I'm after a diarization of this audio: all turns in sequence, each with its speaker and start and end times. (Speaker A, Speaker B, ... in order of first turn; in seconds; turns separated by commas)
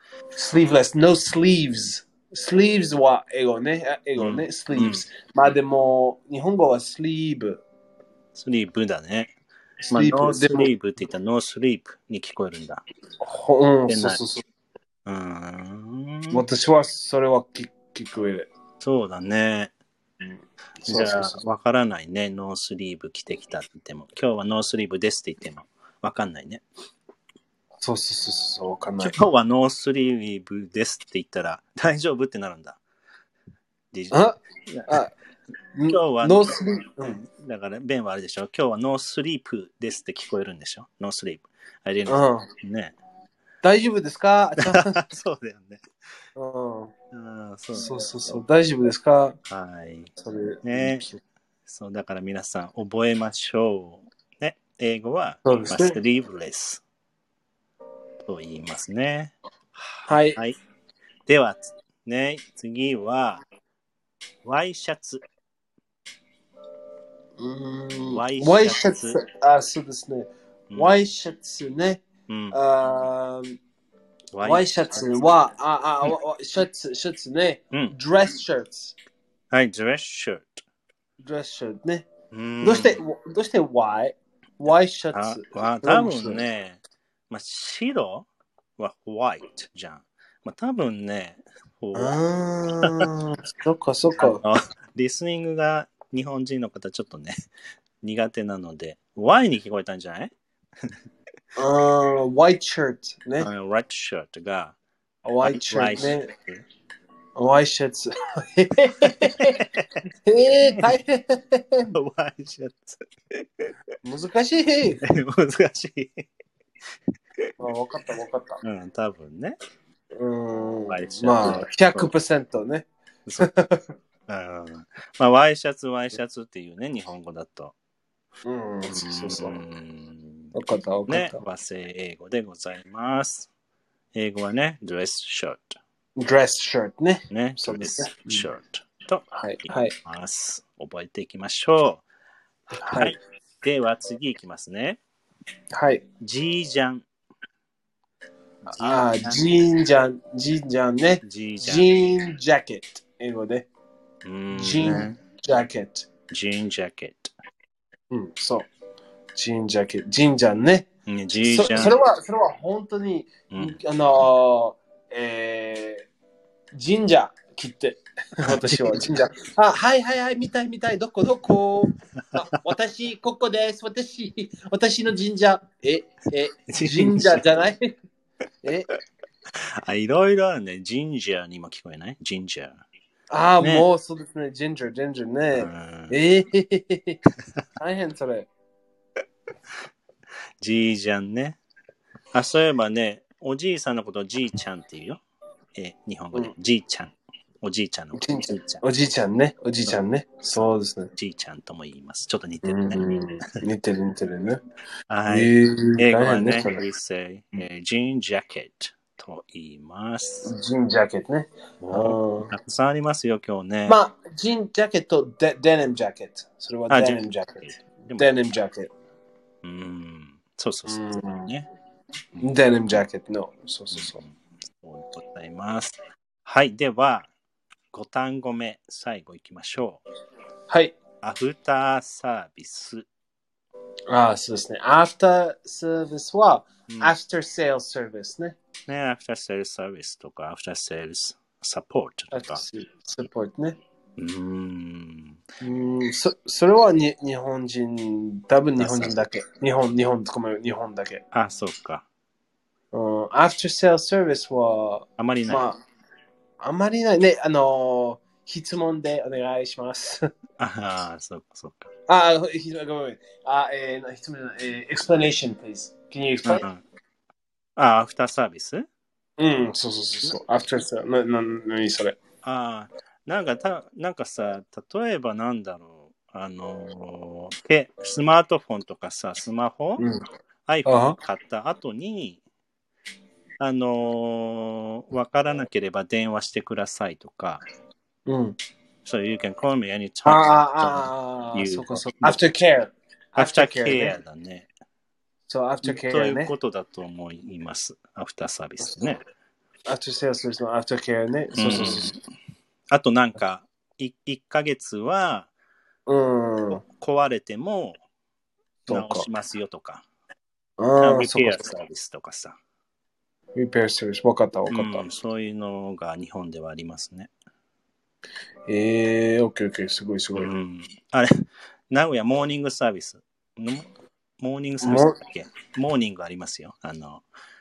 Speaker A: 0.4-7.6, Speaker B: 4.2-5.0, Speaker B: 8.3-9.3, Speaker A: 9.8-10.7, Speaker B: 9.9-12.8, Speaker A: 13.2-14.4, Speaker B: 13.9-14.2, Speaker B: 15.1-16.4, Speaker A: 16.3-18.5, Speaker B: 18.8-19.7, Speaker A: 20.2-21.5, Speaker B: 20.8-26.6, Speaker A: 27.8-29.2, Speaker B: 29.0-32.8, Speaker B: 33.9-35.0, Speaker A: 34.1-34.4, Speaker A: 35.8-37.2, Speaker B: 35.9-43.0, Speaker A: 42.1-42.5, Speaker A: 43.6-45.0, Speaker B: 44.7-45.8, Speaker A: 46.4-46.9, Speaker B: 47.1-48.5, Speaker A: 47.7-49.4, Speaker B: 49.5-50.1, Speaker A: 50.2-51.1, Speaker B: 50.6-56.8, Speaker A: 55.5-56.0, Speaker B: 58.2-60.6, Speaker A: 60.1-60.4, Speaker B: 61.2-63.4, Speaker B: 64.5-65.2, Speaker A: 67.4-73.6, Speaker B: 68.1-69.2, Speaker B: 70.7-71.0, Speaker B: 72.3-72.6, Speaker B: 74.3-75.3, Speaker A: 74.4-79.0, Speaker B: 79.5-80.6, Speaker A: 81.2-82.0, Speaker B: 82.3-83.0, Speaker A: 82.6-86.5, Speaker B: 85.1-86.8, Speaker B: 87.3-92.2, Speaker A: 92.0-94.4, Speaker B: 94.2-97.5, Speaker B: 98.0-100.3, Speaker A: 101.6-103.5, Speaker B: 103.4-104.8, Speaker A: 105.2-106.3, Speaker B: 105.4-106.6, Speaker A: 107.4-109.7, Speaker B: 109.0-109.9, Speaker A: 110.2-111.9, Speaker B: 112.0-113.7, Speaker A: 114.0-115.0, Speaker B: 115.0-116.2, Speaker A: 117.6-118.6, Speaker B: 118.6-119.5, Speaker A: 120.2-122.9, Speaker B: 120.9-122.1, Speaker A: 123.4-123.9, Speaker B: 124.3-127.8, Speaker A: 128.4-129.6, Speaker B: 128.9-130.6, Speaker A: 130.5-131.4, Speaker B: 131.1-133.5, Speaker B: 134.2-135.8, Speaker A: 136.2-138.4, Speaker B: 137.3-139.2, Speaker A: 139.3-139.9, Speaker B: 140.0-142.0, Speaker B: 142.7-145.0, Speaker A: 142.8-143.2, Speaker A: 145.8-146.0, Speaker B: 146.2-147.1, Speaker B: 148.7-149.5, Speaker A: 148.8-153.7, Speaker B: 151.2-151.9, Speaker B: 154.2-155.2, Speaker A: 154.5-156.1, Speaker B: 156.3-157.3, Speaker A: 158.1-158.7, Speaker A: 159.3-160.9, Speaker B: 161.1-162.0, Speaker A: 161.4-166.1, Speaker B: 163.5-163.8, Speaker A: 166.8-177.9, Speaker B: 168.4-169.1, Speaker B: 176.7-177.4, Speaker A: 178.6-178.9, Speaker B: 179.6-182.8, Speaker A: 183.3-187.2, Speaker B: 183.6-183.9, Speaker B: 185.6-186.2, Speaker A: 187.8-188.5, Speaker B: 190.6-191.6, Speaker B: 192.3-195.2, Speaker B: 195.8-198.8, Speaker A: 198.2-201.1, Speaker B: 201.2-203.1, Speaker A: 202.6-204.6, Speaker B: 205.1-210.5, Speaker A: 205.3-206.8, Speaker A: 210.4-212.5, Speaker B: 211.8-214.0, Speaker A: 213.9-218.9, Speaker B: 216.9-218.5, Speaker B: 219.6-221.7, Speaker A: 220.9-221.5, Speaker A: 222.4-224.2, Speaker B: 223.9-227.3, Speaker B: 227.9-230.0, Speaker A: 230.7-231.0, Speaker B: 231.2-233.1, Speaker A: 234.1-238.6, Speaker B: 236.9-237.1, Speaker B: 238.9-242.6, Speaker A: 242.3-243.8, Speaker B: 244.2-245.4, Speaker A: 245.6-251.2, Speaker B: 248.8-249.2, Speaker B: 251.3-252.1, Speaker A: 252.9-255.8, Speaker B: 255.2-255.7, Speaker A: 256.6-260.2, Speaker B: 260.6-261.9, Speaker A: 262.1-266.7, Speaker B: 266.4-266.8, Speaker B: 267.8-268.9, Speaker A: 269.4-272.2, Speaker B: 272.4-280.1, Speaker B: 280.7-282.4, Speaker A: 280.9-281.2, Speaker B: 283.6-287.6, Speaker A: 288.2-288.6, Speaker B: 289.1-292.4, Speaker A: 290.2-294.2, Speaker B: 293.4-294.7, Speaker A: 295.5-296.5, Speaker B: 295.8-299.2, Speaker A: 298.8-299.1, Speaker A: 299.9-302.1, Speaker B: 301.6-302.1, Speaker B: 302.9-305.5, Speaker A: 306.1-306.8, Speaker B: 306.7-308.0, Speaker A: 308.9-309.3, Speaker B: 308.9-310.1, Speaker A: 310.8-311.7, Speaker B: 311.0-312.6, Speaker A: 313.6-315.1, Speaker B: 314.7-317.3, Speaker A: 318.7-320.5, Speaker B: 320.4-321.3, Speaker B: 321.9-323.9, Speaker B: 324.4-327.2, Speaker A: 324.8-325.2